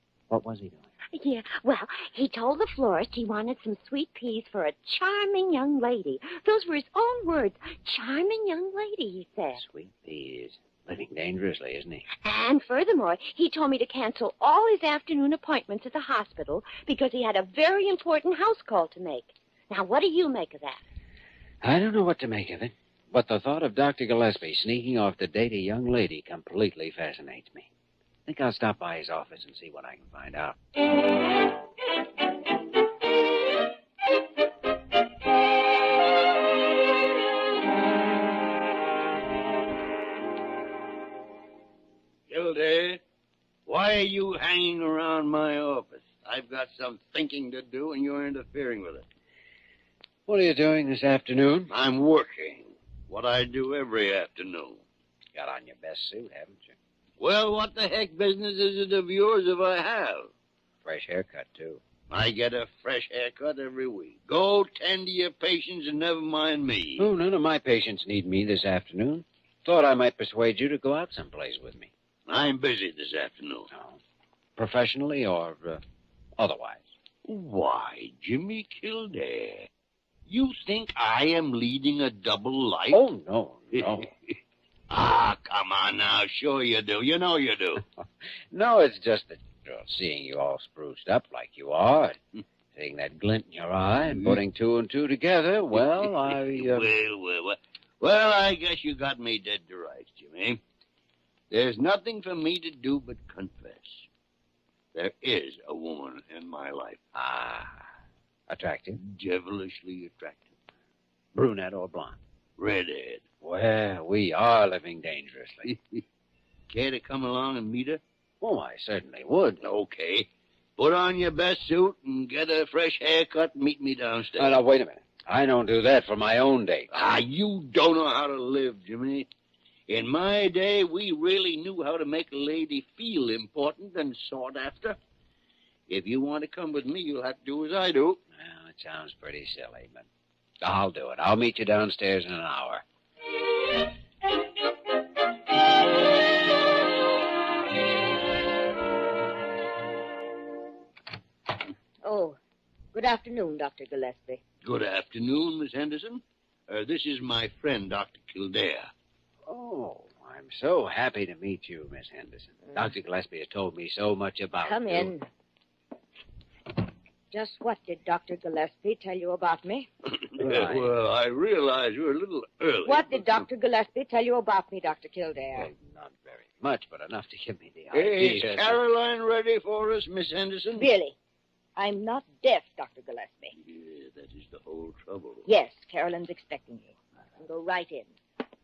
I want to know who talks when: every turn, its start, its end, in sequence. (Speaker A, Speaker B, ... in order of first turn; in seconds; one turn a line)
Speaker A: 0.3-0.9
Speaker B: 1.1-9.6
Speaker A: 9.6-12.1
Speaker B: 12.2-20.8
Speaker A: 21.6-27.7
Speaker A: 28.3-30.6
Speaker C: 42.3-43.0
Speaker C: 43.7-49.1
Speaker A: 50.3-51.7
Speaker C: 51.7-54.8
Speaker A: 55.3-56.7
Speaker C: 57.2-60.3
Speaker A: 60.9-61.8
Speaker C: 62.1-67.1
Speaker A: 67.0-71.9
Speaker C: 72.3-73.7
Speaker A: 73.7-74.0
Speaker A: 74.6-75.8
Speaker A: 76.4-76.8
Speaker C: 77.2-79.7
Speaker C: 80.3-83.0
Speaker A: 82.9-84.1
Speaker C: 83.7-84.0
Speaker C: 84.9-87.8
Speaker A: 88.5-92.2
Speaker A: 92.7-96.9
Speaker C: 94.1-94.4
Speaker C: 96.3-100.6
Speaker C: 101.5-104.1
Speaker C: 104.9-107.0
Speaker A: 107.1-107.9
Speaker A: 108.5-109.0
Speaker C: 109.0-110.5
Speaker A: 111.3-112.2
Speaker C: 112.6-113.2
Speaker A: 113.4-115.7
Speaker C: 115.7-116.0
Speaker C: 116.7-118.0
Speaker A: 118.4-119.6
Speaker C: 119.6-124.6
Speaker A: 124.4-127.0
Speaker C: 126.9-129.3
Speaker C: 129.9-135.0
Speaker C: 135.9-138.2
Speaker A: 138.3-140.1
Speaker A: 140.6-142.8
Speaker D: 152.0-152.4
Speaker D: 152.9-154.4
Speaker C: 154.6-158.9
Speaker A: 159.5-165.1
Speaker D: 164.7-165.3
Speaker D: 167.3-169.9
Speaker C: 170.3-173.5
Speaker A: 170.4-170.9
Speaker D: 172.8-175.7
Speaker A: 175.5-178.8
Speaker C: 177.9-180.9
Speaker D: 180.8-181.2
Speaker D: 181.8-183.5
Speaker C: 183.6-185.5
Speaker D: 185.5-188.1